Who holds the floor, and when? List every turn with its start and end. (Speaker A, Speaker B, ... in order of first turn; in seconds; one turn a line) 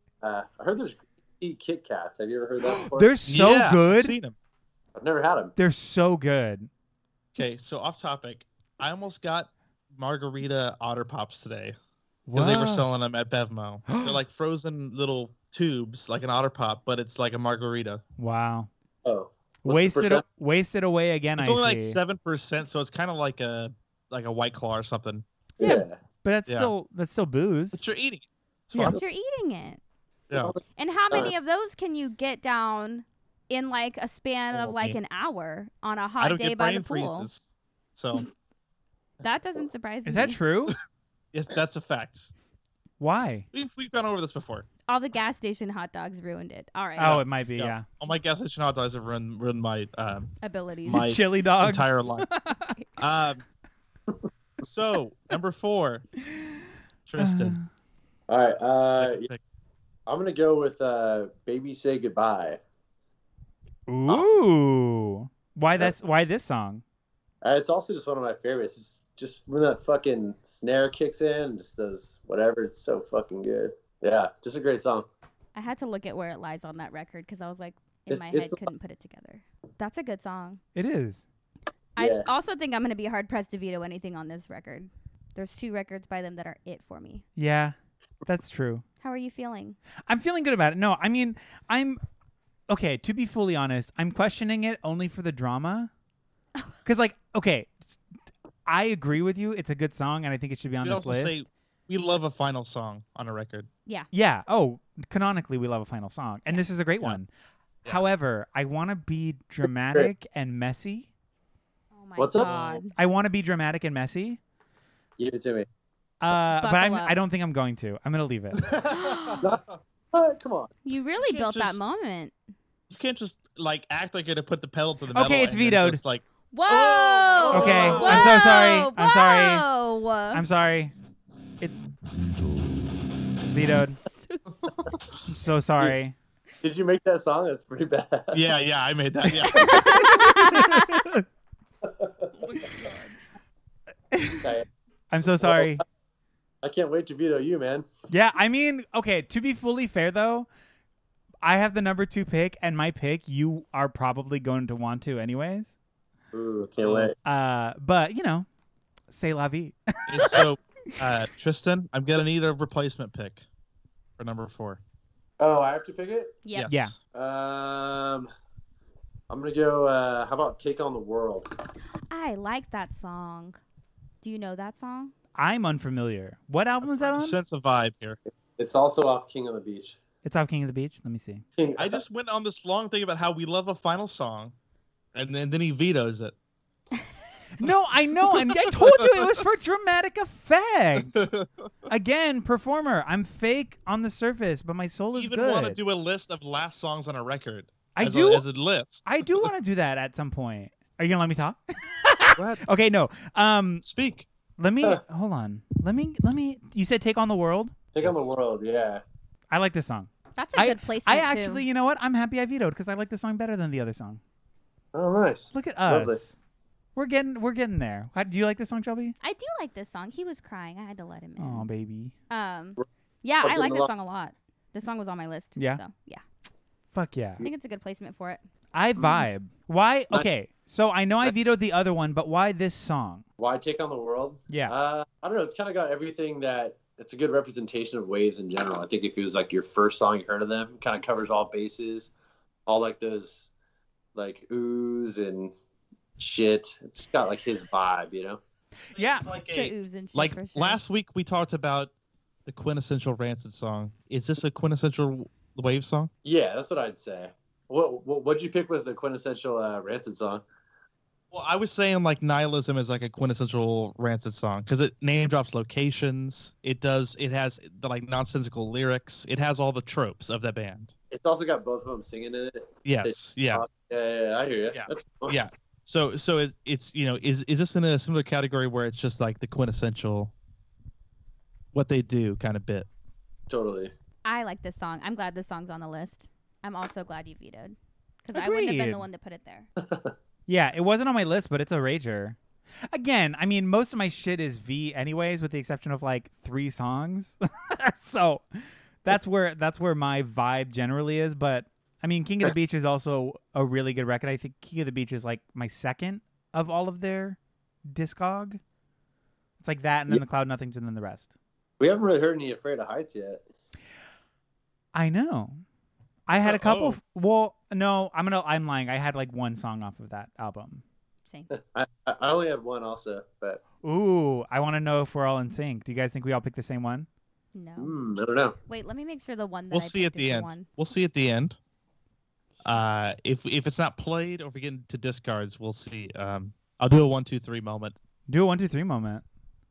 Speaker A: 0.2-3.1
Speaker B: 2.6-4.2
Speaker C: 3.3-4.3
Speaker A: 4.9-5.5
Speaker B: 5.5-6.7
Speaker C: 7.3-11.7
Speaker B: 12.3-12.8
Speaker C: 12.3-18.0
Speaker B: 13.9-14.2
Speaker B: 18.2-18.7
Speaker A: 19.0-20.2
Speaker B: 19.6-22.0
Speaker C: 21.4-25.2
Speaker A: 25.6-26.0
Speaker B: 25.6-27.8
Speaker C: 26.5-26.7
Speaker C: 27.7-29.0
Speaker D: 28.8-29.8
Speaker C: 30.3-30.6
Speaker D: 30.8-37.3
Speaker C: 34.5-35.0
Speaker C: 36.2-38.2
Speaker D: 39.2-40.4
Speaker B: 40.0-40.8
Speaker C: 41.3-42.3
Speaker B: 43.0-43.5
Speaker C: 43.5-44.7
Speaker D: 44.9-47.2
Speaker B: 47.0-47.9
Speaker C: 47.0-50.3
Speaker D: 50.4-51.1
Speaker C: 50.8-52.3
Speaker B: 50.9-52.7
Speaker C: 53.0-53.4
Speaker C: 54.6-56.0
Speaker C: 57.0-57.6
Speaker B: 57.2-57.6
Speaker A: 58.3-59.3
Speaker C: 58.9-59.4
Speaker A: 60.1-62.6
Speaker B: 63.9-66.8
Speaker A: 64.1-64.3
Speaker A: 67.4-75.1
Speaker D: 75.5-80.6
Speaker A: 78.1-78.6
Speaker B: 80.7-81.2
Speaker D: 82.0-87.2
Speaker A: 82.0-82.3
Speaker B: 87.4-88.8
Speaker D: 89.0-89.8
Speaker B: 90.1-92.0
Speaker B: 92.7-95.9
Speaker B: 96.8-98.0
Speaker B: 98.7-101.4
Speaker C: 100.8-103.7
Speaker B: 104.1-107.3
Speaker B: 107.8-111.1
Speaker D: 111.9-113.0
Speaker A: 112.2-112.8
Speaker C: 112.4-112.7
Speaker B: 113.0-114.4
Speaker A: 115.2-115.7
Speaker B: 116.2-118.6
Speaker D: 116.6-117.1
Speaker C: 118.6-119.4
Speaker D: 118.9-119.5
Speaker A: 119.4-120.7
Speaker D: 120.8-122.3
Speaker C: 121.2-121.8
Speaker C: 122.9-128.4
Speaker B: 125.1-126.0
Speaker D: 126.5-130.4
Speaker A: 127.4-128.2
Speaker B: 127.5-129.7
Speaker B: 130.3-130.9
Speaker B: 133.4-134.0
Speaker D: 133.6-134.9
Speaker B: 135.3-136.2
Speaker A: 136.6-138.5
Speaker C: 138.3-140.2
Speaker D: 139.4-141.0
Speaker B: 139.6-141.2
Speaker A: 141.8-142.3
Speaker B: 144.1-144.5
Speaker B: 145.1-145.8
Speaker A: 145.4-145.8
Speaker A: 146.6-147.9
Speaker B: 148.1-150.5
Speaker B: 151.4-155.7
Speaker A: 156.3-157.1
Speaker C: 156.8-157.1
Speaker B: 157.2-158.5
Speaker B: 159.1-160.4
Speaker C: 160.1-163.4
Speaker C: 164.2-164.8
Speaker A: 165.4-166.4
Speaker D: 166.4-166.7
Speaker C: 166.5-166.9
Speaker B: 166.7-166.9
Speaker A: 167.1-168.3
Speaker A: 169.3-171.5
Speaker D: 172.1-173.6
Speaker D: 174.2-175.1
Speaker B: 175.3-177.4
Speaker C: 176.8-178.2
Speaker A: 178.6-180.0
Speaker B: 180.2-181.4
Speaker A: 181.6-182.0
Speaker C: 181.8-184.5
Speaker C: 185.1-186.3
Speaker B: 187.6-191.2
Speaker C: 188.3-189.4
Speaker C: 191.1-191.7
Speaker B: 191.9-195.8
Speaker C: 195.1-199.4
Speaker B: 197.9-198.4
Speaker B: 199.0-203.8
Speaker C: 202.3-202.7
Speaker C: 203.8-204.3
Speaker B: 204.6-207.7
Speaker A: 207.9-209.0
Speaker C: 208.0-208.3
Speaker B: 209.5-214.2
Speaker D: 210.3-211.6
Speaker A: 214.9-216.2
Speaker B: 215.5-216.3
Speaker B: 216.9-219.1
Speaker D: 219.2-221.7
Speaker B: 221.4-222.1
Speaker D: 222.3-226.2
Speaker A: 223.4-223.9
Speaker B: 226.9-227.4
Speaker D: 227.4-228.4
Speaker B: 228.7-233.2
Speaker A: 233.4-242.1
Speaker B: 234.5-234.7
Speaker A: 242.7-243.5
Speaker A: 244.1-245.5
Speaker A: 246.2-248.4
Speaker B: 248.9-249.3
Speaker C: 248.9-251.9
Speaker D: 249.5-250.8
Speaker C: 252.4-256.1
Speaker A: 256.2-260.4
Speaker C: 261.3-270.9
Speaker A: 271.1-275.4
Speaker C: 272.8-273.6
Speaker C: 274.7-280.3
Speaker C: 281.7-282.9
Speaker A: 283.5-283.9
Speaker D: 284.2-289.7
Speaker B: 288.3-289.0
Speaker A: 289.8-290.1
Speaker B: 290.5-292.4
Speaker B: 292.9-308.6
Speaker B: 309.6-311.3
Speaker A: 311.8-313.4
Speaker B: 314.9-315.6
Speaker B: 316.3-320.8
Speaker C: 316.4-317.0
Speaker A: 321.5-323.6
Speaker B: 323.8-327.1
Speaker D: 327.5-327.9
Speaker A: 327.8-328.6
Speaker D: 328.7-330.7
Speaker C: 329.7-331.6
Speaker C: 332.6-337.9
Speaker B: 338.3-339.2